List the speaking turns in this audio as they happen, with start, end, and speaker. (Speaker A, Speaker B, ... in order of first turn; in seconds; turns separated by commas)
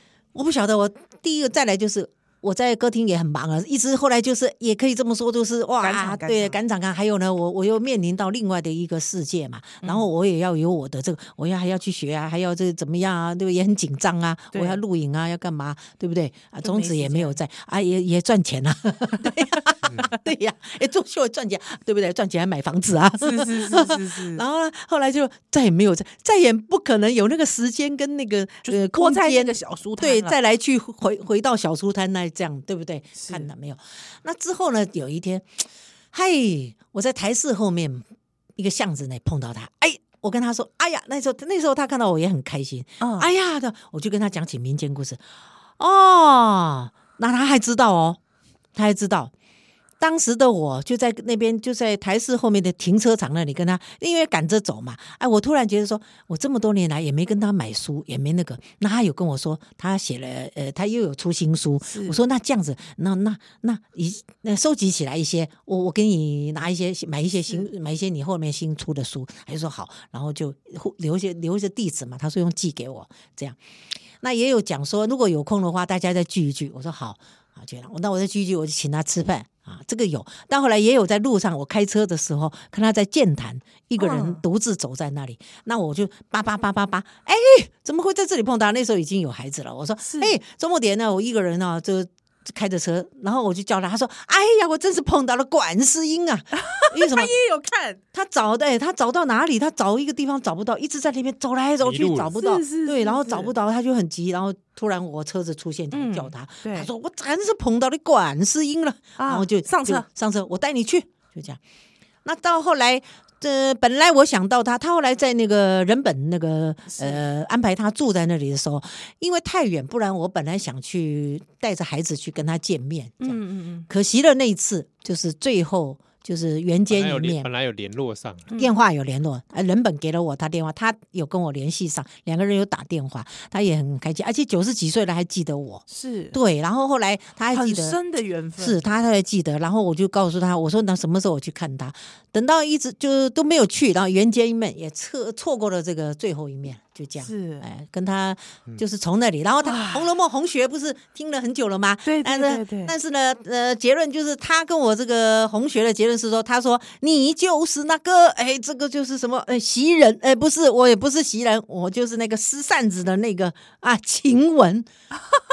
Speaker A: 0.3-45.2, Speaker B: 5.8-6.5, Speaker B: 14.5-14.8, Speaker B: 16.6-17.4, Speaker C: 19.8-20.1, Speaker B: 23.2-24.4, Speaker B: 28.6-30.4, Speaker B: 33.1-33.5, Speaker B: 43.0-43.3, Speaker A: 45.8-48.2, Speaker A: 48.7-49.3, Speaker A: 50.0-73.6, Speaker B: 61.8-62.2, Speaker A: 74.2-97.3, Speaker B: 84.0-84.4, Speaker B: 90.0-90.4, Speaker B: 96.5-98.0, Speaker A: 98.1-111.6, Speaker C: 101.8-102.4, Speaker B: 102.4-103.5, Speaker B: 105.9-106.9, Speaker B: 109.2-110.0, Speaker A: 112.2-127.5, Speaker B: 116.9-117.2, Speaker B: 123.2-123.9, Speaker C: 126.9-128.5, Speaker A: 128.6-138.0, Speaker B: 135.9-136.4, Speaker B: 137.5-138.9, Speaker A: 138.6-164.9, Speaker B: 147.2-147.7, Speaker B: 149.6-150.1, Speaker B: 152.0-152.9